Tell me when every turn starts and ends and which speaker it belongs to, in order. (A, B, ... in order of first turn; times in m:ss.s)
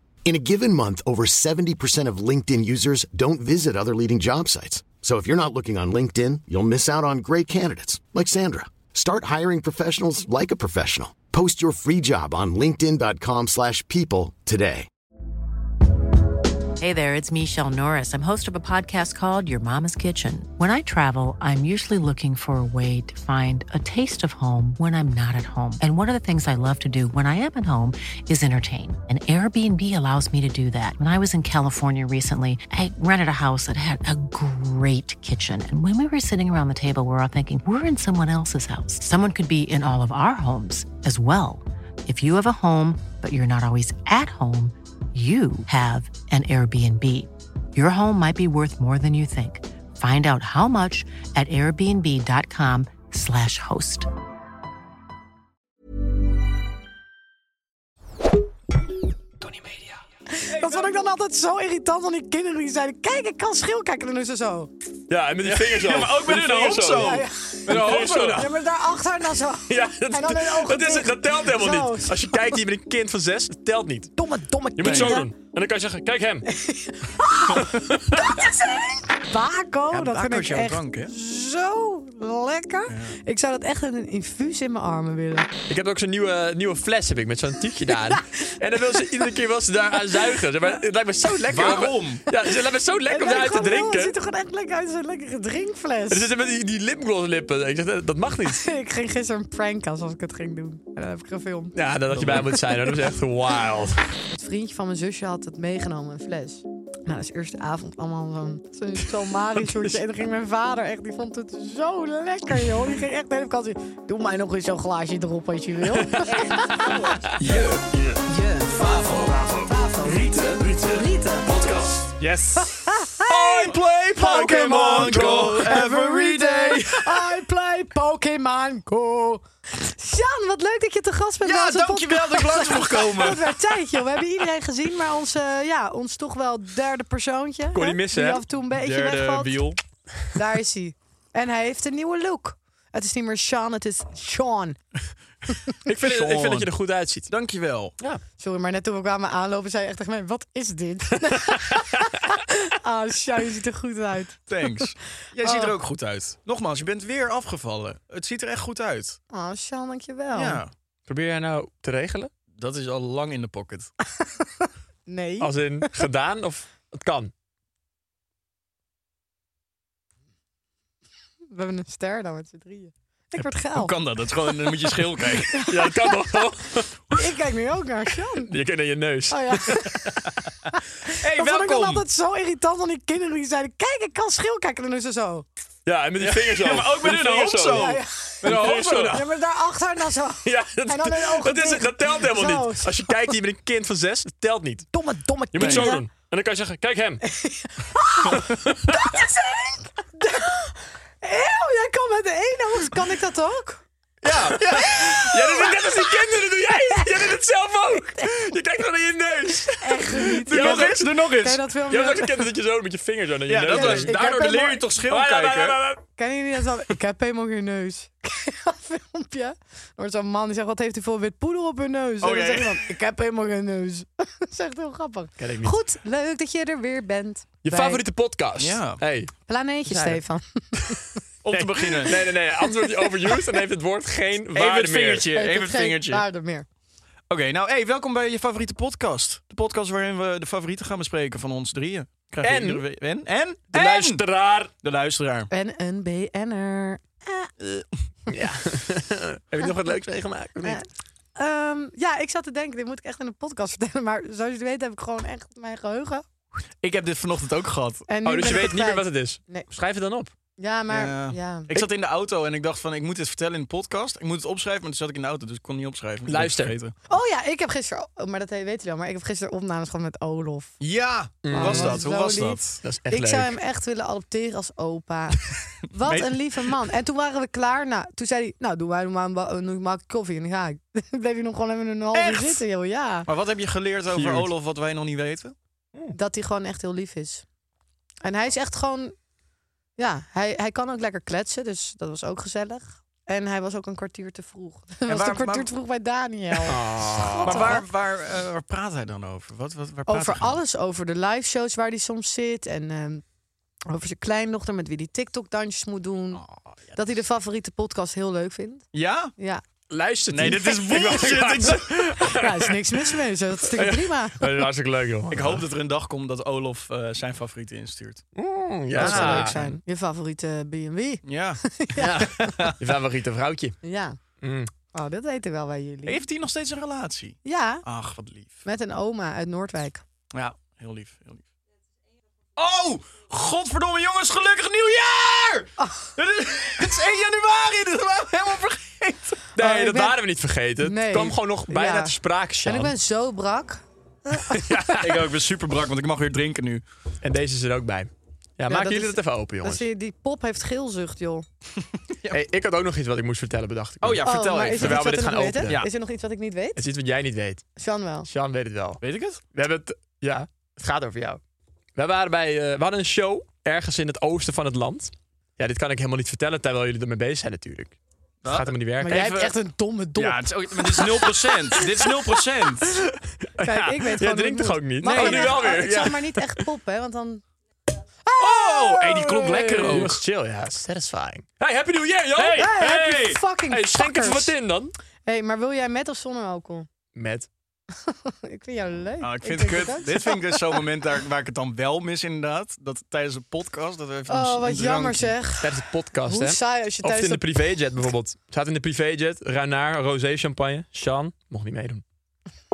0:00.2-0:14.9 A
0:16.8-0:54.1 B
0:59.4-1:00.0 C
1:00.3-1:04.7 D
1:05.1-1:08.4 C
1:05.4-1:08.5 E
1:06.9-1:12.4 D
1:09.7-1:14.1 C
1:14.2-1:15.3 D
1:14.8-1:16.5 C
1:14.8-1:15.2 E
1:16.5-1:25.5 D
1:17.7-1:18.4 C
1:19.9-1:21.1 E
1:22.9-1:23.2 E
1:25.7-1:34.1 C
1:28.1-1:28.5 D
1:31.5-1:32.2 E
1:33.1-1:36.3 D
1:36.1-1:38.6 C
1:38.5-1:41.8 D
1:41.7-1:44.0 C
1:42.1-1:42.4 E
1:44.3-1:57.0 D
1:49.6-1:50.0 C
1:55.9-1:58.2 C
1:57.4-1:57.8 E
1:58.8-2:02.9 C
1:59.6-2:00.3 D
2:02.7-2:19.7 D
2:03.3-2:07.2 E
2:04.6-2:05.6 C
2:11.4-2:13.6 E
2:17.7-2:18.4 C
2:18.7-2:19.8 E
2:20.3-2:24.8 D
2:25.9-2:27.3 C
2:26.0-2:26.7 E
2:27.3-2:27.9 E
2:28.4-2:34.4 D
2:34.5-2:39.2 E
2:35.4-2:35.7 D
2:39.3-2:40.6 D
2:40.3-2:40.7 E
2:41.1-2:42.3 C
2:42.5-2:43.9 E
2:44.2-2:45.9 D
2:45.4-2:47.3 C
2:51.5-2:53.9 D
2:53.7-2:55.6 E
2:55.5-2:56.5 D
2:55.7-2:57.0 C
2:57.1-2:58.5 D
2:58.4-2:59.8 C
2:59.3-3:00.2 D
3:00.7-3:05.4 D
3:01.2-3:02.0 E
3:05.8-3:09.2 C
3:06.2-3:09.2 E
3:07.7-3:13.0 D
3:10.4-3:15.0 C
3:14.9-3:16.0 D
3:15.5-3:17.2 C
3:15.5-3:15.9 E
3:17.2-3:23.8 D
3:18.3-3:19.1 C
3:24.2-3:25.4 E
3:24.3-3:31.2 C
3:24.8-3:25.8 D
3:29.7-3:32.5 D
3:30.5-3:31.6 E
3:31.9-3:34.1 C
3:33.5-3:35.8 E
3:33.6-3:34.9 D
3:35.0-3:36.0 C
3:36.2-3:48.0 D
3:42.2-3:42.8 E
3:45.4-3:45.8 C
3:47.6-3:49.3 C
3:48.6-3:49.0 E
3:49.5-3:51.0 D
3:51.4-3:52.2 E
3:51.5-3:55.3 C
3:52.8-3:53.4 D
3:54.5-3:56.2 E
3:55.3-3:56.6 D
3:57.3-4:04.2 E
4:02.4-4:02.8 C
4:03.7-4:04.7 C
4:04.8-4:05.5 E
4:05.5-4:07.5 D
4:08.3-4:10.8 C
4:10.6-4:16.3 D
4:16.8-4:18.0 E
4:18.1-4:19.7 D
4:18.2-4:20.3 C
4:20.6-4:21.7 D
4:20.9-4:26.9 E
4:26.2-4:26.8 C
4:27.1-4:30.8 D
4:30.8-4:32.8 E
4:31.4-4:32.0 C
4:31.5-4:43.3 D
4:32.8-4:33.6 C
4:42.1-4:42.6 E
4:43.3-4:45.5 E
4:44.1-4:44.5 C
4:46.1-4:47.4 D
4:48.2-4:49.1 D
4:50.0-4:57.8 D
4:55.1-4:55.7 E
4:56.6-4:57.8 C
4:57.4-5:00.6 E
5:00.1-5:03.2 D
5:03.9-5:06.4 D
5:06.3-5:07.0 E
5:06.9-5:09.6 D
5:08.9-5:09.3 E
5:09.9-5:13.0 C
5:10.3-5:12.1 E
5:12.2-5:14.5 D
5:13.7-5:15.6 C
5:15.3-5:18.2 E
5:18.3-5:19.6 C
5:18.9-5:19.8 E
5:19.0-5:22.5 D
5:21.2-5:21.7 E
5:22.0-5:23.8 C
5:22.3-5:22.8 E
5:23.8-5:24.2 D
5:24.4-5:24.7 C
5:24.9-5:26.2 D
5:26.0-5:28.6 E
5:27.4-5:27.8 D
5:28.6-5:30.0 D
5:30.3-5:31.4 E
5:32.6-5:39.4 E
5:35.8-5:36.1 D
5:39.5-5:42.9 C
5:39.6-5:40.2 D
5:40.8-5:45.0 D
5:44.5-5:45.3 C
5:45.0-5:46.8 E
5:47.2-5:49.9 C
5:48.7-5:51.4 D
5:52.3-5:55.8 C
5:54.0-5:55.9 E
5:54.2-5:56.8 D
5:56.8-5:57.6 C
5:57.8-5:58.3 D
5:58.2-5:59.0 C
5:59.0-5:59.4 E
5:59.5-6:01.4 C
6:01.9-6:09.4 C
6:08.4-6:09.5 E
6:09.0-6:12.3 D
6:10.2-6:13.0 E
6:13.4-6:16.6 C
6:13.6-6:17.4 D
6:15.0-6:15.8 E
6:18.2-6:19.2 D
6:18.4-6:20.2 E
6:19.2-6:24.9 C
6:22.5-6:24.5 D
6:25.2-6:26.9 D
6:27.1-6:27.5 C
6:27.9-6:30.6 D
6:29.2-6:35.4 E
6:34.3-6:37.6 D
6:35.6-6:42.0 C